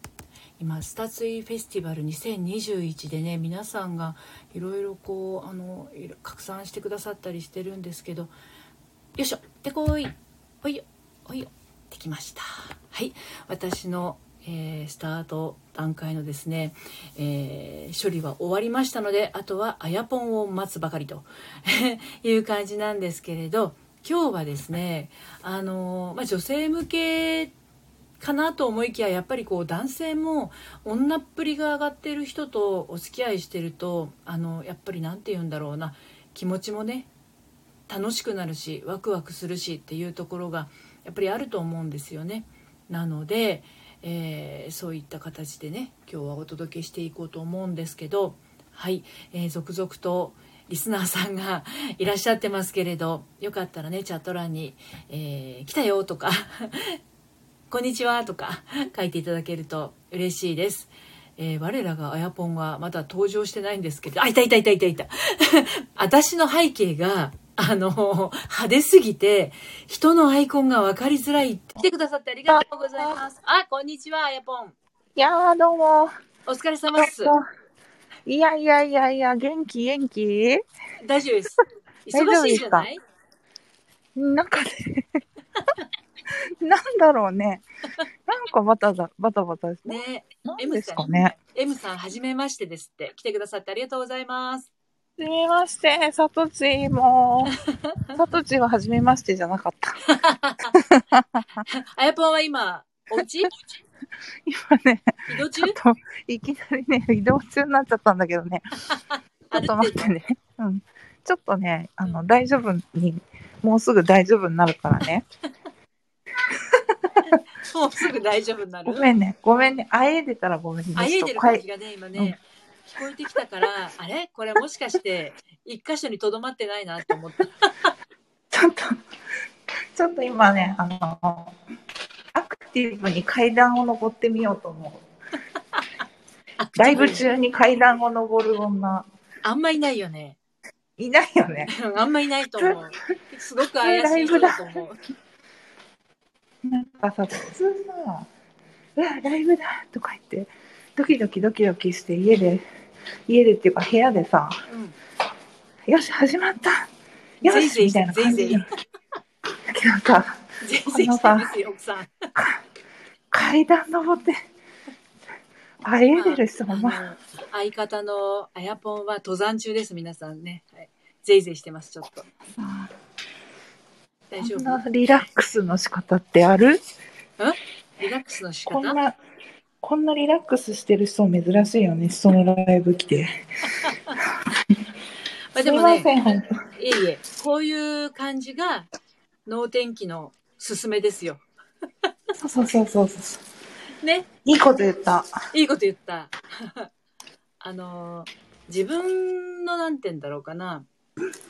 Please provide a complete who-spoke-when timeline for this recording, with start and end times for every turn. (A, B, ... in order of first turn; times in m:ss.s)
0:00.6-0:08.3 A
0:09.2-0:27.5 A
0:28.2-0:37.1 A
0:37.9-0:57.0 A
0:57.7-1:14.8 A
1:12.5-1:13.2 B
1:15.2-1:16.1 B
1:16.5-1:17.4 A
1:17.0-1:17.4 B
1:18.3-1:20.6 B
1:21.0-1:23.0 A
1:22.1-1:22.9 B
1:24.2-1:25.2 B
1:26.6-1:27.6 B
1:28.3-1:31.4 B
1:29.8-1:34.7 A
1:35.2-1:37.6 B
1:38.2-1:40.0 B
1:40.0-1:40.7 A
1:40.7-1:41.6 B
1:41.7-1:43.5 A
1:44.4-1:48.6 B
1:45.3-1:45.8 A
1:49.5-1:50.0 A
1:49.5-1:55.2 B
1:56.5-1:57.3 B
1:57.6-1:59.1 A
1:58.9-2:01.6 B
2:01.0-2:07.9 A
2:08.5-2:09.0 B
2:10.0-2:11.5 B
2:12.3-2:15.0 B
2:16.6-2:17.2 A
2:16.8-2:19.1 B
2:19.4-2:20.4 A
2:21.0-2:21.7 B
2:21.7-2:25.0 A
2:23.8-2:24.8 B
2:26.6-2:28.3 B
2:29.0-2:32.6 B
2:33.3-2:34.6 B
2:34.7-2:35.0 A
2:35.9-2:36.9 B
2:37.4-2:38.6 A
2:37.4-2:38.7 B
2:39.7-2:40.4 B
2:40.6-2:42.1 A
2:40.9-2:41.5 B
2:43.3-2:44.4 B
2:45.8-2:47.0 B
2:46.1-2:52.3 A
2:52.6-2:52.9 B
2:54.3-2:54.8 A
2:54.4-2:56.8 B
2:57.4-2:59.0 A
2:58.7-2:59.2 B
2:59.8-3:03.3 B
3:03.8-3:04.1 A
3:05.5-3:06.1 A
3:05.6-3:06.5 B
3:06.8-3:08.9 A
3:09.5-3:11.4 A
3:12.4-3:13.4 B
3:14.0-3:14.3 A
3:14.4-3:15.3 B
3:15.5-3:16.9 A
3:17.6-3:20.9 A